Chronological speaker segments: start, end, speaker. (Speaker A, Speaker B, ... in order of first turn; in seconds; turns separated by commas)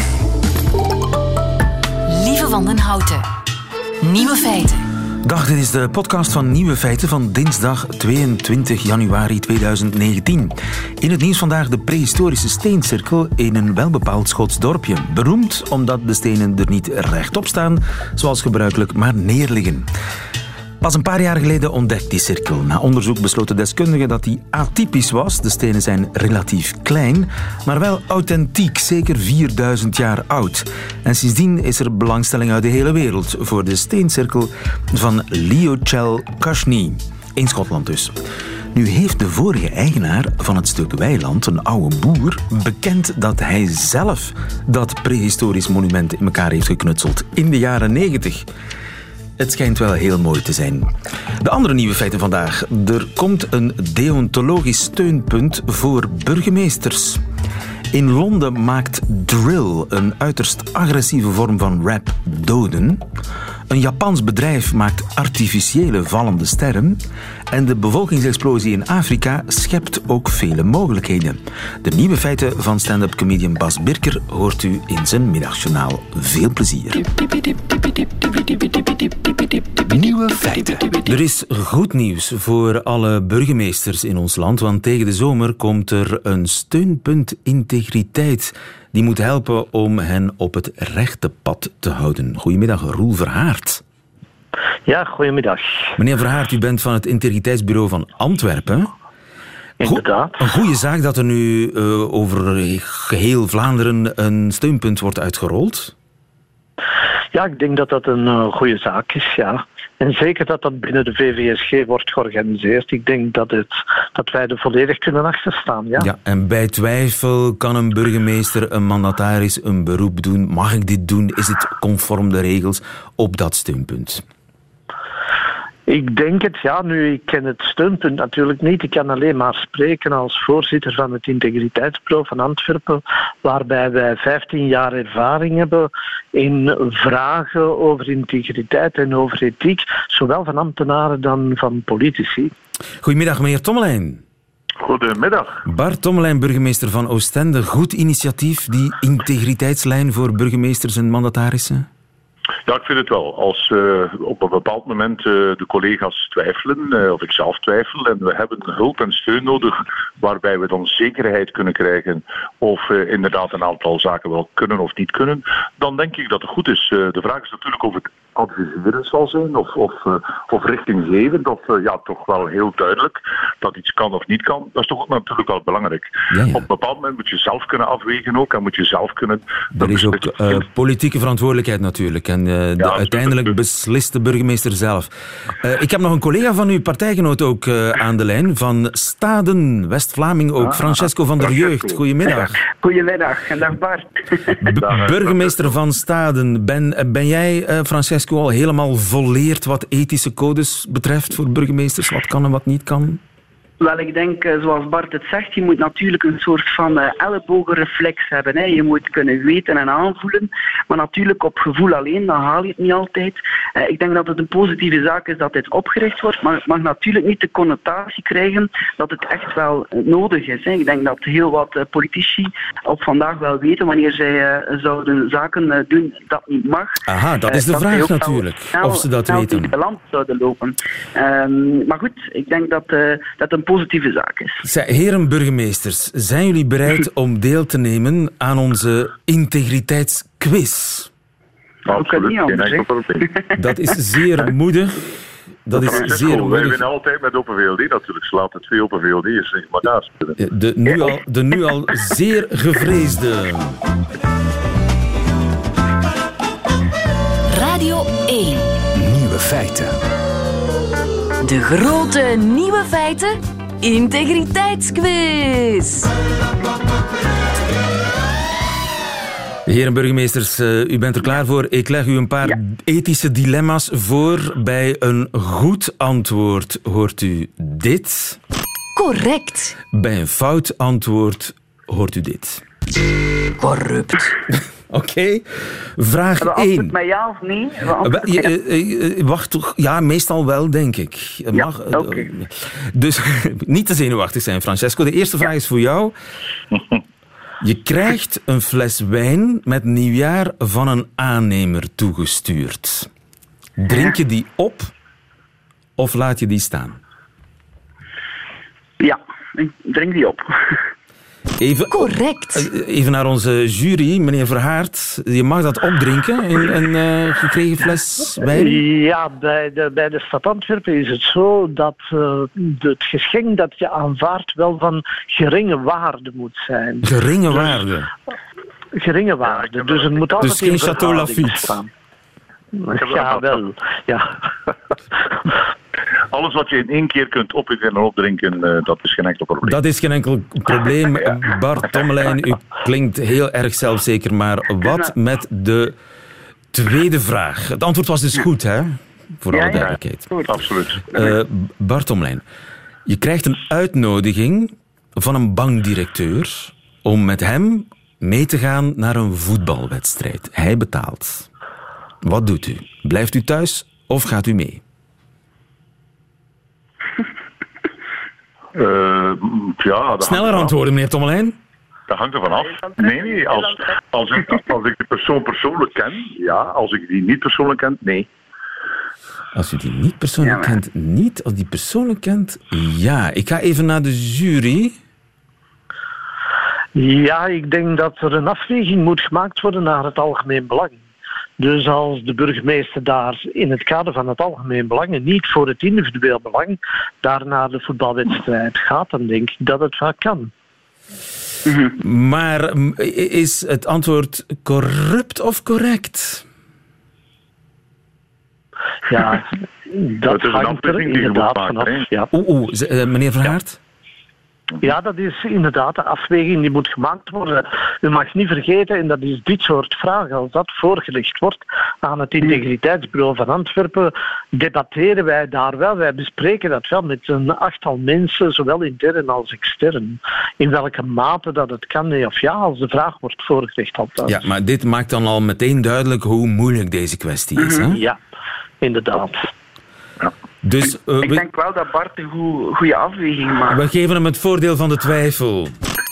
Speaker A: 2.1-3.2, Speaker A: 4.0-4.8, Speaker B: 5.2-19.9, Speaker B: 20.8-38.1, Speaker B: 38.7-48.5, Speaker B: 49.4-50.9, Speaker B: 51.4-57.2, Speaker B: 57.9-63.0, Speaker B: 63.7-67.0, Speaker B: 67.5-77.0, Speaker C: 79.8-81.0, Speaker B: 81.0-93.8, Speaker D: 94.9-95.9, Speaker B: 96.0-98.9, Speaker D: 99.8-100.3, Speaker B: 99.8-105.9, Speaker D: 107.3-116.1, Speaker B: 116.0-124.2, Speaker D: 125.9-142.5, Speaker B: 143.0-144.2, Speaker E: 144.8-145.6, Speaker B: 145.7-151.9, Speaker E: 152.7-180.7, Speaker B: 176.3-176.7, Speaker B: 179.7-192.6, Speaker E: 182.8-183.5, Speaker E: 190.7-191.9, Speaker F: 192.7-194.6, Speaker B: 194.6-203.2, Speaker E: 194.7-195.7, Speaker F: 203.8-234.6, Speaker B: 227.1-229.7, Speaker B: 234.6-241.1, Speaker E: 241.8-243.3, Speaker F: 241.9-242.8, Speaker B: 243.6-245.1, Speaker B: 245.7-246.8, Speaker E: 245.7-250.3, Speaker B: 250.4-253.8, Speaker A: 257.5-258.7, Speaker C: 258.9-259.9, Speaker A: 261.4-266.1, Speaker B: 269.6-278.4, Speaker A: 278.9-279.7, Speaker B: 279.9-282.6, Speaker A: 283.6-284.3, Speaker B: 284.9-286.9, Speaker F: 286.4-288.5, Speaker B: 288.0-296.1, Speaker F: 291.5-292.3, Speaker E: 296.7-297.0, Speaker B: 297.6-303.1, Speaker B: 303.8-304.9, Speaker B: 306.0-307.0, Speaker F: 309.0-310.8, Speaker B: 311.6-318.8, Speaker A: 311.9-312.7, Speaker D: 318.4-327.6, Speaker B: 327.0-328.1, Speaker D: 328.9-331.9, Speaker E: 329.4-331.2, Speaker B: 330.4-331.8, Speaker D: 332.8-334.3, Speaker E: 333.0-333.6, Speaker E: 336.3-339.8, Speaker B: 339.6-345.9, Speaker B: 346.7-350.4, Speaker F: 349.5-350.5, Speaker E: 349.8-351.0, Speaker B: 351.1-352.4, Speaker B: 353.1-361.5, Speaker B: 362.2-364.8, Speaker E: 368.7-370.7, Speaker B: 370.2-371.5, Speaker E: 372.1-378.3, Speaker F: 372.8-373.9, Speaker B: 379.5-384.9, Speaker F: 380.4-380.7, Speaker D: 386.9-391.0, Speaker D: 391.6-400.5, Speaker B: 401.9-406.4, Speaker D: 409.1-412.3, Speaker E: 410.2-412.1, Speaker B: 412.3-413.8, Speaker D: 414.8-434.4, Speaker B: 434.3-438.0, Speaker F: 437.6-437.9, Speaker D: 437.9-438.2, Speaker D: 438.8-439.5, Speaker B: 440.6-441.4, Speaker F: 441.2-443.8, Speaker B: 443.7-445.7